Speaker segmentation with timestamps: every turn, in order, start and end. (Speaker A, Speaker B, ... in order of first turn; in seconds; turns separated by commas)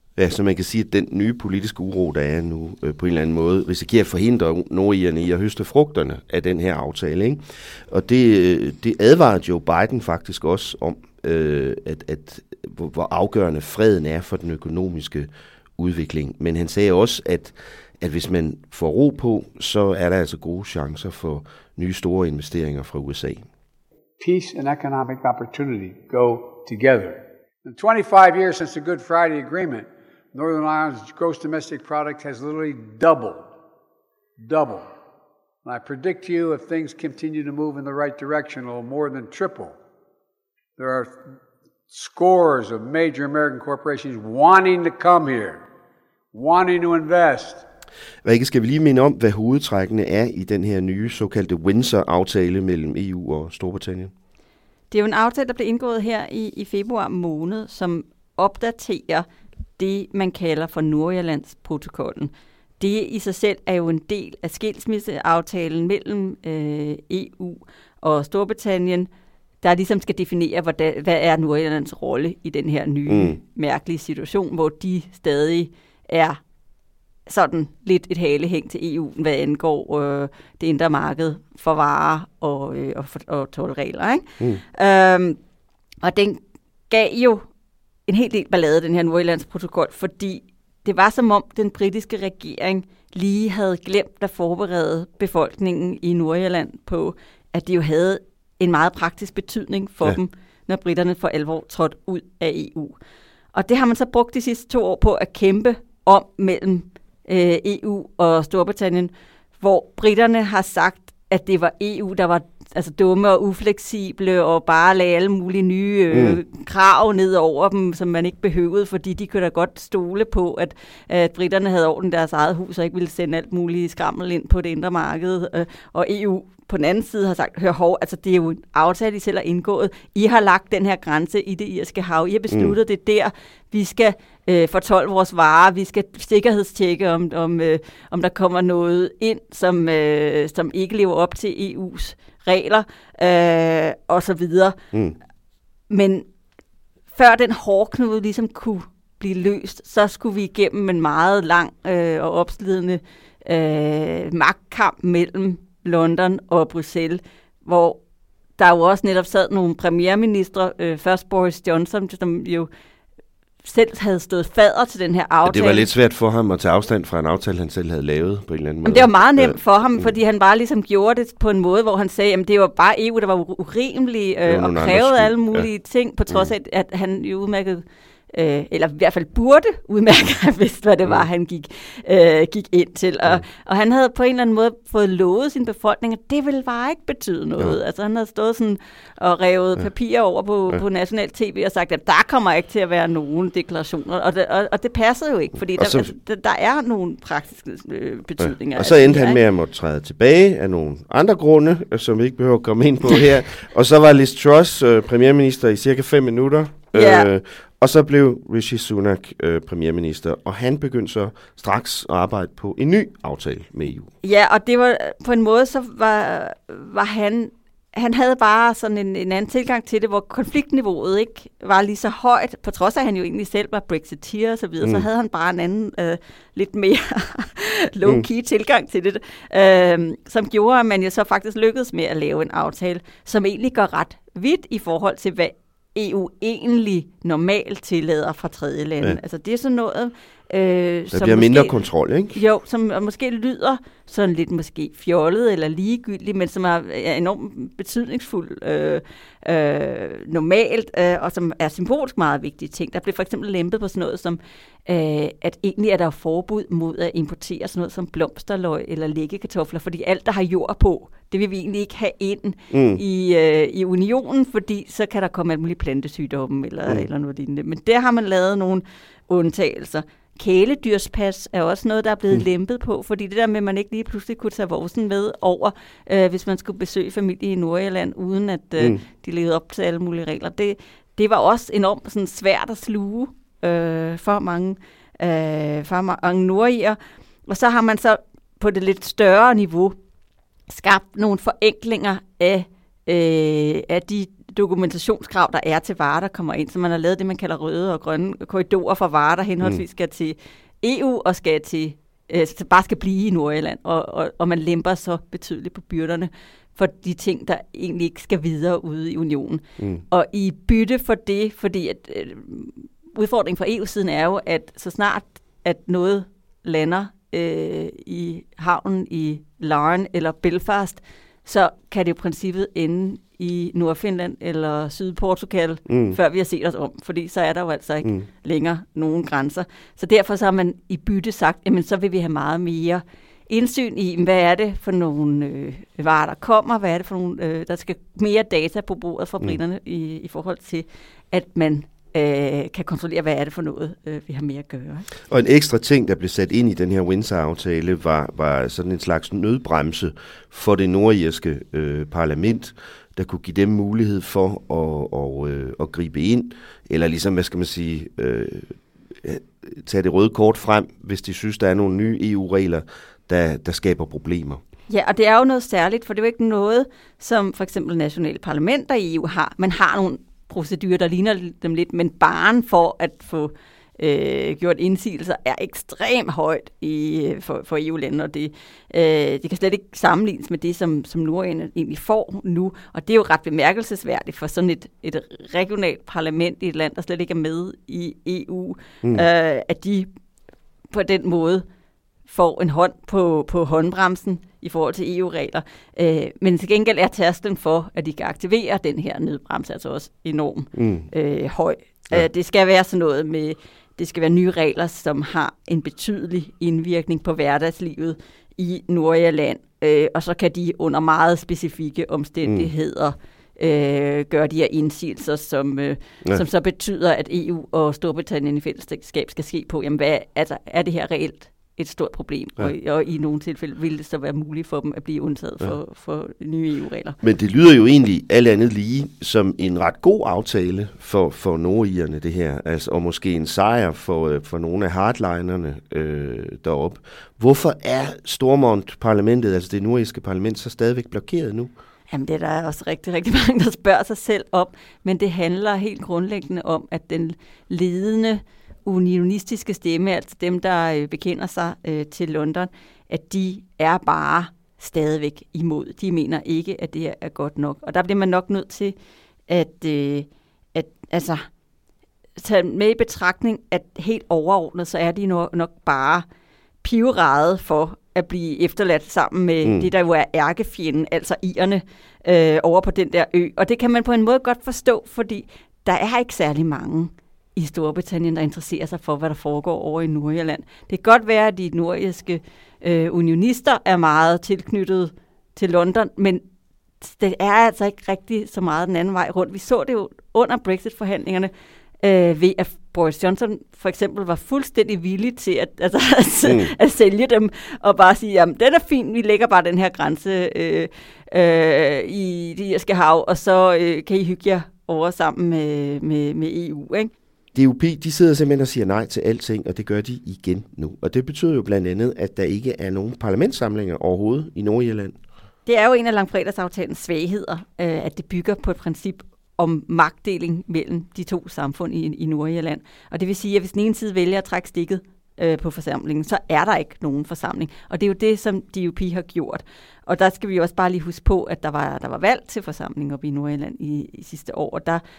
Speaker A: 0.2-23.5, Speaker B: 24.2-33.5, Speaker B: 34.4-34.9, Speaker B: 35.6-39.8, Speaker B: 40.8-41.2, Speaker B: 41.9-45.7, Speaker B: 46.3-47.6, Speaker A: 48.2-54.1, Speaker C: 54.9-59.3, Speaker C: 59.8-69.1, Speaker C: 69.6-76.4, Speaker A: 73.1-73.4, Speaker C: 77.3-85.4, Speaker C: 86.0-87.5, Speaker C: 88.1-103.0, Speaker C: 103.5-144.8, Speaker A: 116.1-116.4, Speaker C: 145.9-146.3, Speaker C: 147.2-158.0, Speaker C: 158.6-162.7, Speaker C: 163.6-165.9, Speaker A: 165.4-170.1, Speaker C: 168.8-199.4, Speaker A: 174.5-175.7, Speaker A: 195.8-196.1, Speaker A: 198.4-214.1, Speaker C: 206.9-207.3, Speaker C: 214.2-241.7, Speaker A: 224.8-225.1, Speaker A: 241.1-242.4, Speaker C: 242.3-290.0, Speaker A: 262.7-263.0, Speaker C: 290.7-345.1, Speaker A: 325.9-326.2, Speaker A: 345.3-364.6, Speaker C: 364.9-390.1, Speaker C: 390.9-391.6, Speaker C: 392.3-427.2, Speaker A: 400.8-401.1, Speaker A: 412.4-412.7, Speaker A: 427.2-441.7, Speaker C: 442.1-458.9, Speaker C: 459.5-461.5, Speaker C: 462.4-466.2, Speaker C: 466.8-486.4, Speaker A: 469.6-469.9, Speaker C: 487.0-491.5, Speaker C: 492.0-507.1, Speaker A: 496.4-496.7, Speaker A: 507.5-515.1, Speaker C: 515.7-535.0